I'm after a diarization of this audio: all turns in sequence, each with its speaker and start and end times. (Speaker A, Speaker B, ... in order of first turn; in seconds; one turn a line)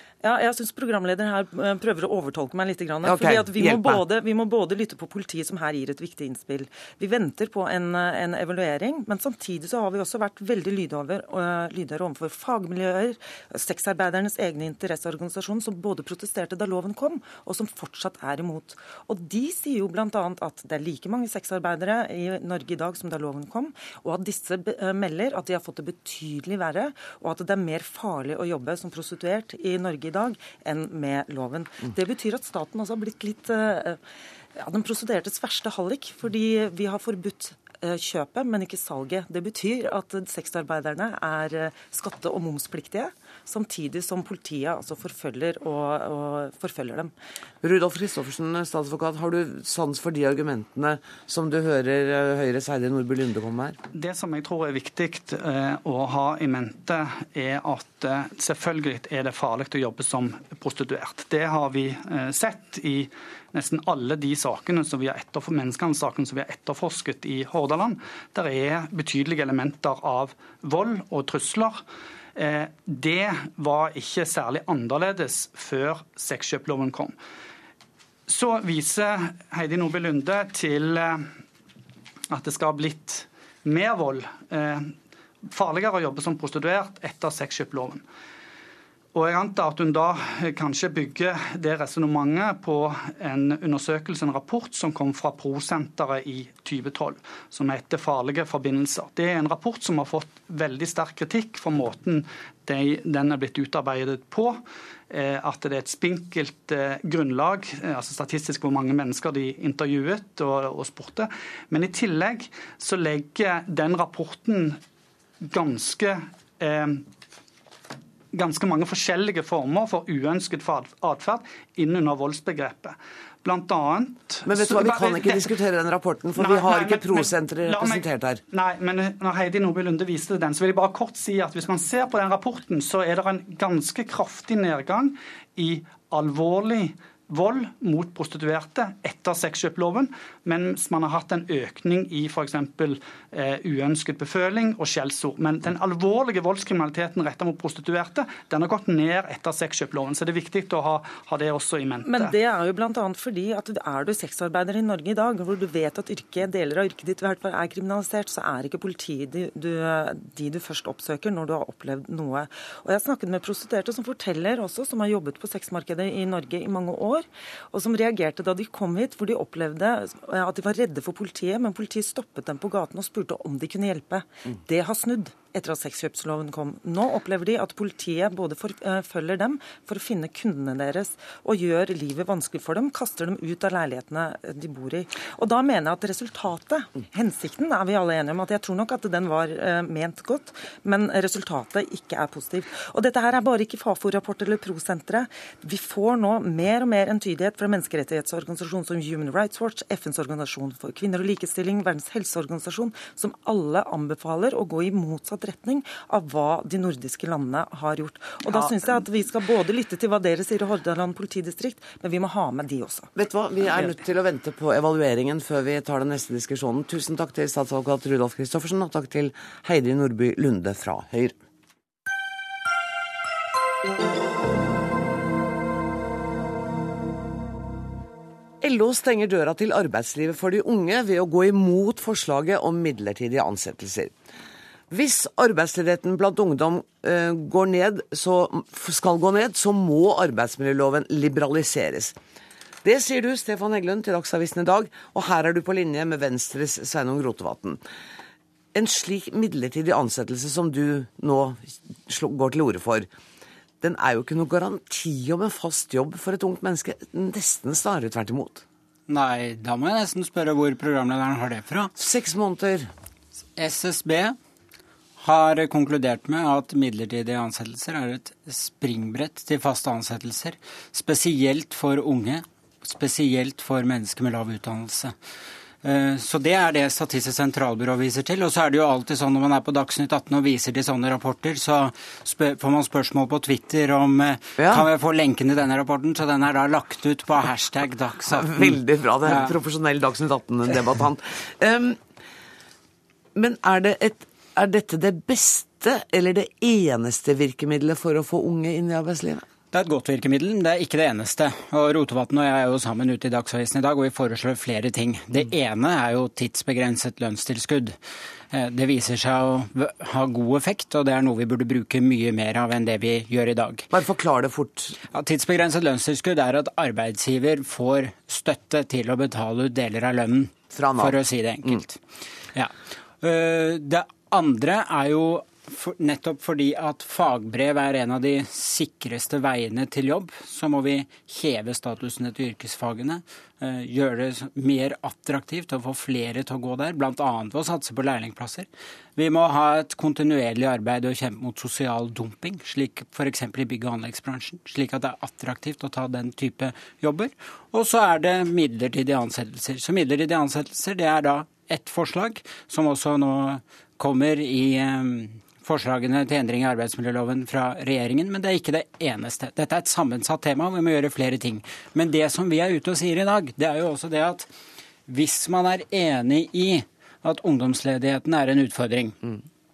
Speaker A: 0.2-34.0
Speaker B: 3.0-4.0
Speaker A: 34.5-47.1
Speaker B: 47.6-53.8
Speaker C: 53.9-71.8
Speaker C: 72.4-77.2
Speaker C: 78.3-81.3
Speaker C: 82.3-85.0
Speaker C: 85.5-88.0
Speaker C: 89.1-114.8
Speaker C: 115.4-117.1
Speaker C: 118.3-125.5
Speaker B: 124.5-128.4
Speaker C: 126.4-152.3
Speaker A: 152.1-213.1
Speaker B: 213.2-221.3
Speaker B: 228.6-234.1
Speaker B: 234.9-242.2
Speaker B: 242.8-247.8
Speaker B: 248.7-253.1
Speaker B: 253.8-258.6
Speaker D: 259.1-261.9
Speaker B: 262.0-262.9
Speaker D: 263.6-264.4
Speaker D: 265.2-275.1
Speaker D: 275.8-289.6
Speaker B: 284.6-284.9
Speaker B: 288.3-292.0
Speaker B: 293.4-299.4
Speaker D: 299.7-308.0
Speaker D: 308.5-313.9
Speaker B: 313.9-315.0
Speaker D: 315.1-322.0
Speaker B: 320.7-321.8
Speaker D: 323.2-364.5
Speaker D: 365.1-369.2